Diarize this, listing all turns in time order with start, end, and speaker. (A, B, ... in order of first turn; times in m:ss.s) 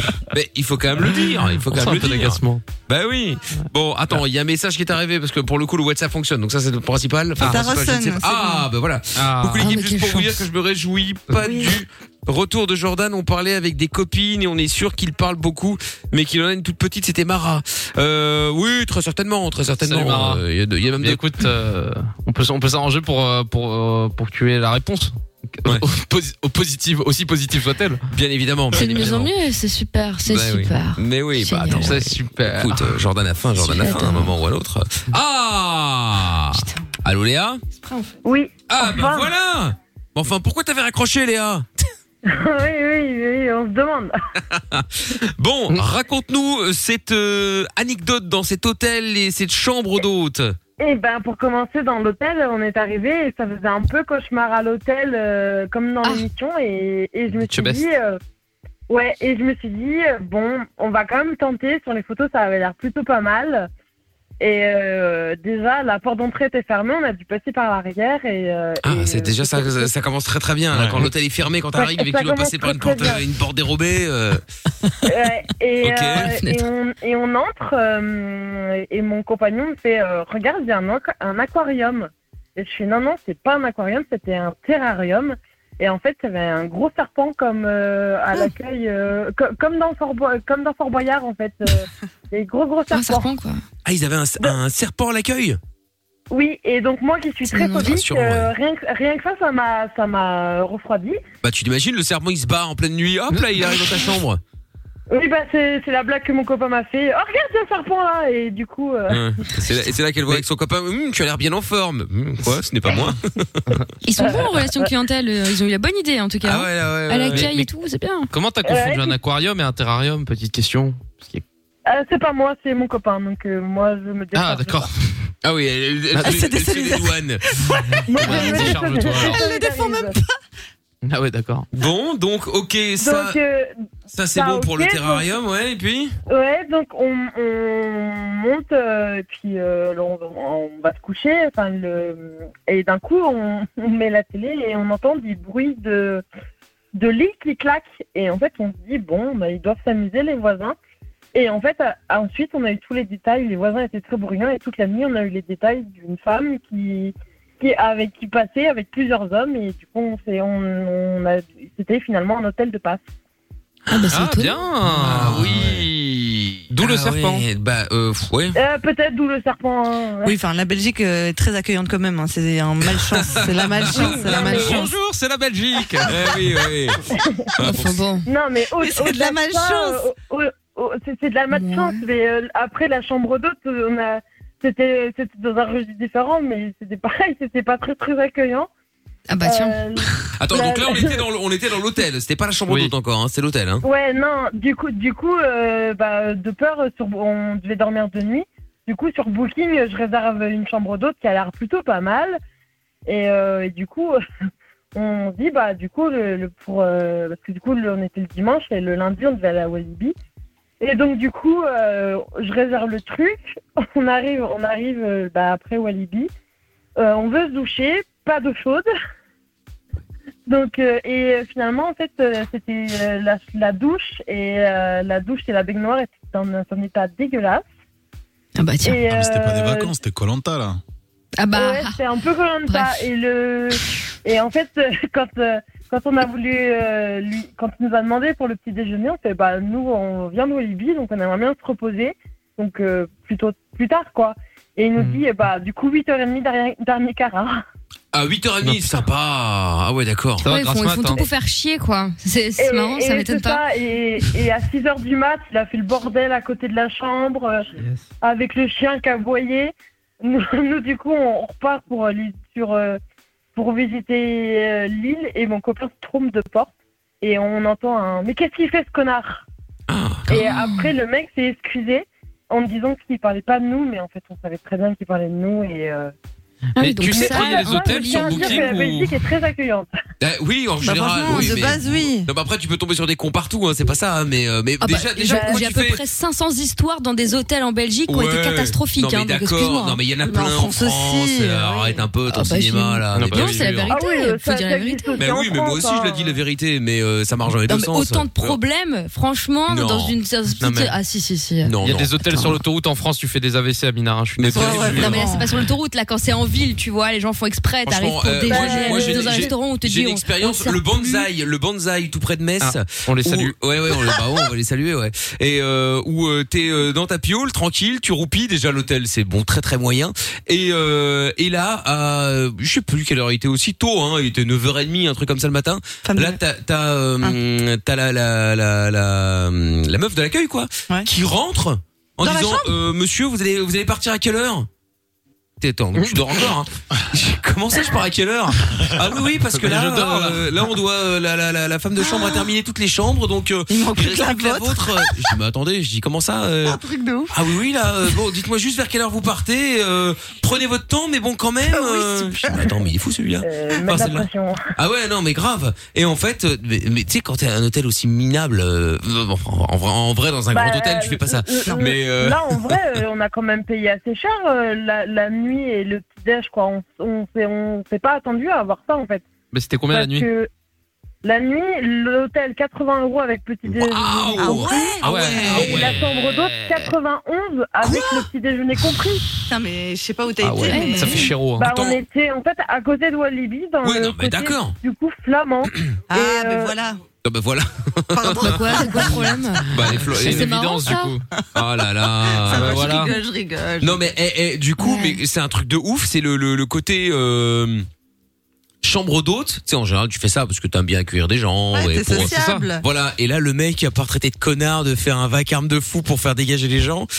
0:00.3-0:21.2 A
0:01.6-0:02.6 B
0:07.4-0:08.6 C
0:09.2-0:09.8 B
0:09.6-0:10.2 D
0:11.4-0:11.7 C
0:19.8-0:20.4 B
0:21.0-0:28.0 B
0:28.1-0:29.3 A
0:28.7-0:31.9 D
0:30.2-0:37.6 A
0:31.7-0:33.0 B
0:33.7-0:33.9 C
0:33.8-0:34.3 D
0:36.5-0:36.8 C
0:37.8-0:38.1 C
0:38.2-0:39.3 E
0:38.7-0:41.7 A
0:42.2-0:44.1 E
0:44.5-0:50.6 A
0:50.8-0:58.2 E
0:57.5-0:57.8 B
0:58.9-1:03.7 E
1:04.4-1:09.9 E
1:08.8-1:14.4 A
1:10.7-1:11.1 F
1:11.7-1:13.2 E
1:15.0-1:33.3 E
1:15.8-1:16.3 A
1:32.9-1:33.6 D
1:33.8-1:35.6 A
1:36.3-1:41.2 E
1:37.5-1:37.9 D
1:37.9-1:38.5 A
1:41.4-1:44.4 A
1:45.1-1:49.2 E
1:49.1-1:53.5 A
1:54.0-1:58.3 D
1:56.4-1:57.5 A
1:57.3-1:57.7 B
1:58.3-2:01.4 B
1:58.6-1:59.2 E
2:01.8-2:04.9 E
2:04.3-2:05.3 B
2:05.4-2:07.4 A
2:06.2-2:10.3 C
2:08.1-2:10.2 E
2:08.2-2:09.4 B
2:11.0-2:11.7 B
2:11.7-2:13.4 A
2:13.0-2:13.7 E
2:14.1-2:16.1 A
2:14.4-2:15.3 E
2:16.3-2:26.2 E
2:26.9-2:30.8 E
2:31.3-2:43.0 E
2:43.9-2:44.6 D
2:43.9-2:45.9 A
2:44.1-2:47.4 B
2:46.7-2:48.6 A
2:48.6-2:50.3 E
2:50.2-2:54.9 C
2:53.0-2:54.8 A
2:53.9-2:54.7 E
2:53.9-2:56.4 B
2:56.1-2:57.0 A
2:57.6-2:58.0 A
2:57.6-2:58.2 D
2:58.2-3:08.7 E
2:58.8-3:00.0 C
3:01.5-3:02.0 D
3:09.3-3:09.8 D
3:09.4-3:11.2 E
3:10.4-3:13.8 A
3:13.8-3:22.4 E
3:23.1-3:24.2 E
3:24.9-3:30.1 E
3:30.8-3:36.3 E
3:37.0-3:38.9 E
3:40.5-3:47.6 E
3:48.6-3:49.0 D
3:48.8-3:49.9 E
3:49.1-3:50.8 F
3:51.4-3:52.0 D
3:51.5-4:07.6 E
3:52.7-3:52.9 D
4:05.0-4:05.2 B
4:08.1-4:10.4 A
4:08.6-4:09.0 B
4:10.4-4:13.6 D
4:10.4-4:11.3 B
4:12.6-4:17.7 E
4:18.2-4:23.0 E
4:23.6-4:29.4 E
4:29.9-4:30.2 A
4:30.3-4:36.1 E
4:30.3-4:30.9 D
4:36.8-4:38.8 D
4:36.8-4:39.1 B
4:37.1-4:39.9 E
4:40.2-4:46.0 A
4:40.8-4:42.3 C
4:44.8-4:50.0 D
4:45.3-4:45.6 E
4:48.1-4:53.9 A
4:50.2-4:52.0 C
4:52.3-4:55.3 D
4:53.1-4:53.9 B
4:53.9-4:56.4 E
4:55.2-4:58.6 A
4:57.7-5:01.7 D
4:59.7-5:00.1 A
5:00.6-5:01.0 B
5:01.6-5:02.1 A
5:01.8-5:05.1 B
5:04.4-5:05.2 A
5:04.5-5:05.5 C
5:05.0-5:11.2 D
5:07.8-5:34.7 A
5:08.4-5:09.5 E
5:12.6-5:13.5 B
5:26.0-5:26.4 C
5:32.2-5:32.7 C
5:35.6-5:54.2 A
5:39.5-5:40.5 B
5:42.0-5:42.4 C
5:43.7-5:45.3 C
5:46.6-5:47.3 C
5:51.7-5:52.7 C
5:53.4-5:54.6 E
5:54.8-6:02.7 A
6:00.5-6:09.2 E
6:09.5-6:10.3 B
6:09.9-6:10.5 E
6:11.2-6:19.2 E
6:13.7-6:16.0 A
6:14.4-6:15.9 C
6:15.0-6:16.9 B
6:19.5-6:21.3 C
6:20.4-6:21.7 B
6:20.6-6:21.2 D
6:21.6-6:26.7 E
6:23.8-6:24.8 A
6:26.1-6:27.0 C
6:27.2-6:29.0 A
6:28.1-6:29.4 C
6:28.4-6:31.2 D
6:29.7-6:30.6 A
6:29.9-6:31.2 B
6:31.6-6:33.1 A
6:32.2-6:34.1 C
6:32.5-6:33.1 B
6:33.8-6:37.9 A
6:38.8-6:47.1 A
6:41.7-6:42.8 C
6:42.2-6:42.7 B